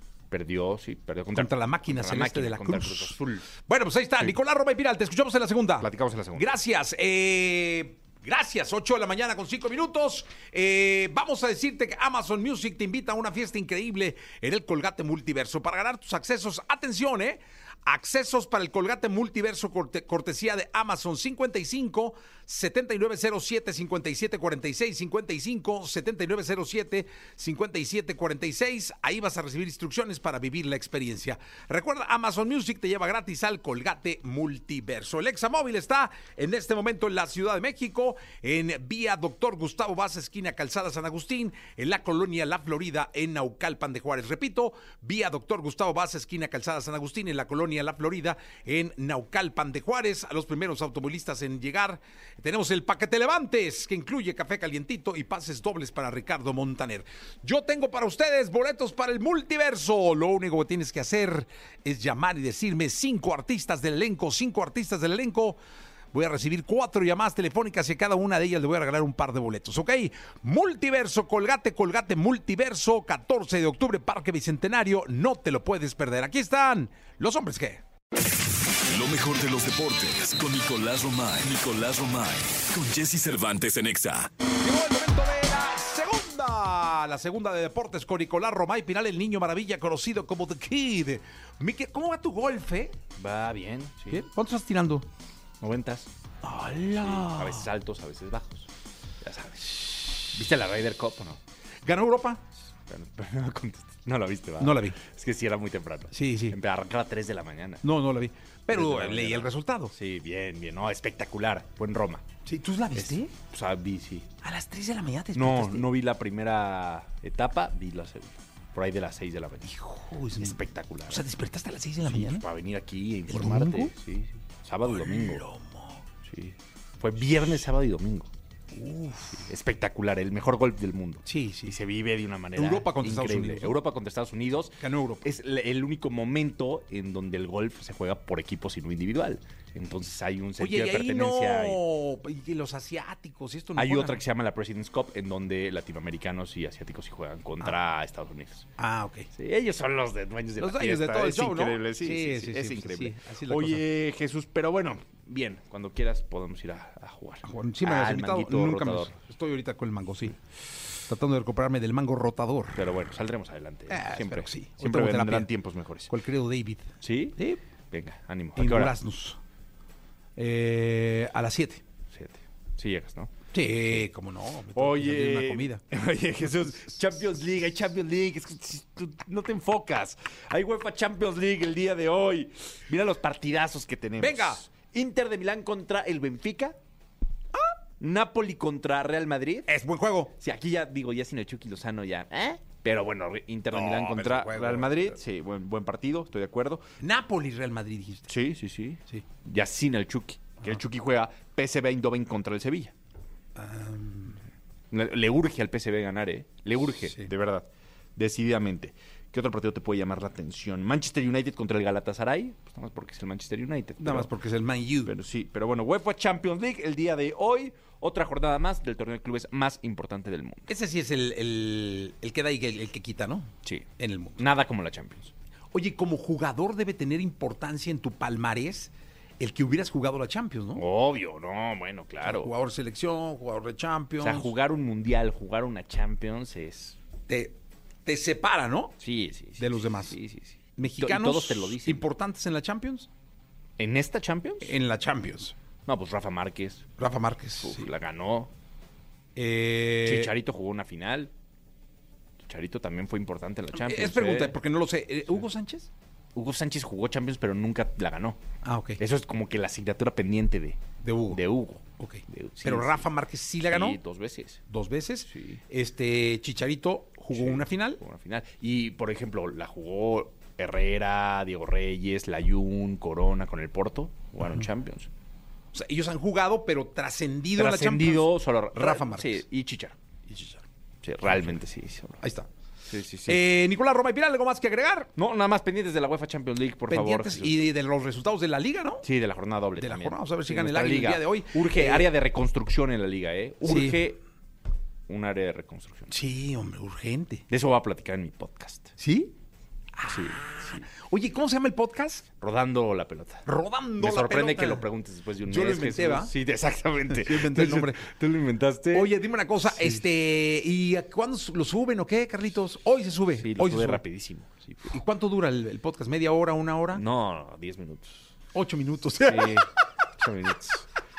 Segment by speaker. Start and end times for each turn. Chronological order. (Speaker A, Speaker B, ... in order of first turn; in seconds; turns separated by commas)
Speaker A: 0.3-3.5, Speaker B: 1.3-65.6, Speaker A: 5.8-6.5, Speaker B: 66.1-77.8, Speaker C: 78.9-84.3, Speaker B: 84.6-93.0, Speaker A: 93.2-94.2, Speaker B: 94.1-95.1, Speaker A: 95.6-96.1, Speaker B: 96.4-97.7, Speaker A: 96.7-98.7, Speaker A: 99.2-101.4, Speaker B: 101.8-102.4, Speaker A: 102.8-107.8, Speaker B: 104.6-105.0, Speaker B: 106.1-106.6, Speaker B: 107.8-109.9, Speaker A: 108.7-112.2, Speaker B: 112.4-113.3, Speaker A: 112.9-114.3, Speaker B: 114.4-115.9, Speaker A: 115.3-119.7, Speaker B: 119.6-122.4, Speaker A: 120.4-121.2, Speaker A: 122.0-125.4, Speaker B: 123.3-123.9, Speaker B: 124.8-126.0, Speaker A: 126.2-128.3, Speaker B: 128.7-129.4, Speaker A: 129.3-141.8, Speaker B: 131.2-131.8, Speaker B: 132.5-133.8, Speaker B: 134.8-135.2, Speaker B: 140.6-144.2, Speaker A: 143.8-148.7, Speaker B: 148.8-149.3, Speaker A: 149.3-159.1, Speaker B: 150.6-153.8, Speaker B: 157.4-160.4, Speaker B: 160.9-162.8, Speaker A: 162.7-166.1, Speaker B: 163.9-165.5, Speaker B: 166.1-167.6, Speaker A: 167.0-167.4, Speaker A: 167.9-168.9, Speaker B: 168.6-169.4, Speaker B: 170.3-171.8, Speaker A: 172.1-174.0, Speaker B: 173.5-175.8, Speaker A: 174.7-186.8, Speaker B: 184.2-184.6, Speaker A: 188.0-189.7, Speaker B: 189.7-190.3, Speaker A: 190.4-196.8, Speaker B: 193.7-195.2, Speaker B: 197.0-198.3, Speaker A: 198.3-202.9, Speaker B: 203.6-204.4, Speaker A: 204.9-214.3, Speaker B: 214.0-215.1, Speaker A: 215.0-220.7, Speaker B: 220.7-224.4, Speaker A: 224.4-225.3, Speaker B: 225.7-230.8, Speaker A: 230.8-232.5, Speaker B: 232.2-234.5, Speaker A: 234.2-237.0, Speaker B: 237.3-238.9, Speaker A: 239.0-242.1, Speaker B: 239.6-240.2, Speaker B: 240.8-243.1, Speaker A: 243.8-244.8, Speaker B: 244.6-245.5, Speaker A: 245.8-246.8, Speaker B: 247.0-247.9, Speaker A: 247.6-248.5, Speaker B: 249.3-250.3, Speaker A: 250.0-251.3, Speaker A: 252.4-254.6, Speaker B: 253.7-255.9, Speaker A: 256.3-258.4, Speaker B: 258.6-259.0, Speaker A: 259.0-260.8, Speaker B: 261.0-261.4, Speaker A: 261.3-263.1, Speaker B: 262.0-264.0, Speaker A: 263.7-264.6, Speaker B: 264.7-268.0, Speaker A: 265.3-265.6, Speaker A: 267.3-275.1, Speaker B: 275.7-279.4, Speaker A: 277.5-280.0, Speaker B: 280.3-280.6, Speaker A: 281.0-282.2, Speaker B: 281.2-281.5, Speaker B: 282.2-282.5, Speaker A: 282.9-283.5, Speaker B: 283.2-285.1, Speaker A: 285.1-287.7, Speaker B: 286.9-289.1, Speaker A: 289.0-294.2, Speaker B: 289.8-292.1, Speaker B: 293.6-294.0, Speaker A: 295.1-296.2, Speaker B: 296.1-297.4, Speaker A: 297.5-298.9, Speaker B: 299.0-299.3, Speaker B: 299.9-302.2, Speaker A: 300.0-300.9, Speaker A: 302.4-303.4, Speaker B: 303.4-304.9, Speaker A: 304.0-310.0, Speaker B: 305.4-306.3, Speaker B: 307.1-308.0, Speaker B: 308.9-314.0, Speaker A: 313.4-315.0, Speaker B: 314.9-317.0, Speaker A: 316.9-318.3, Speaker B: 318.5-319.6, Speaker A: 319.2-320.9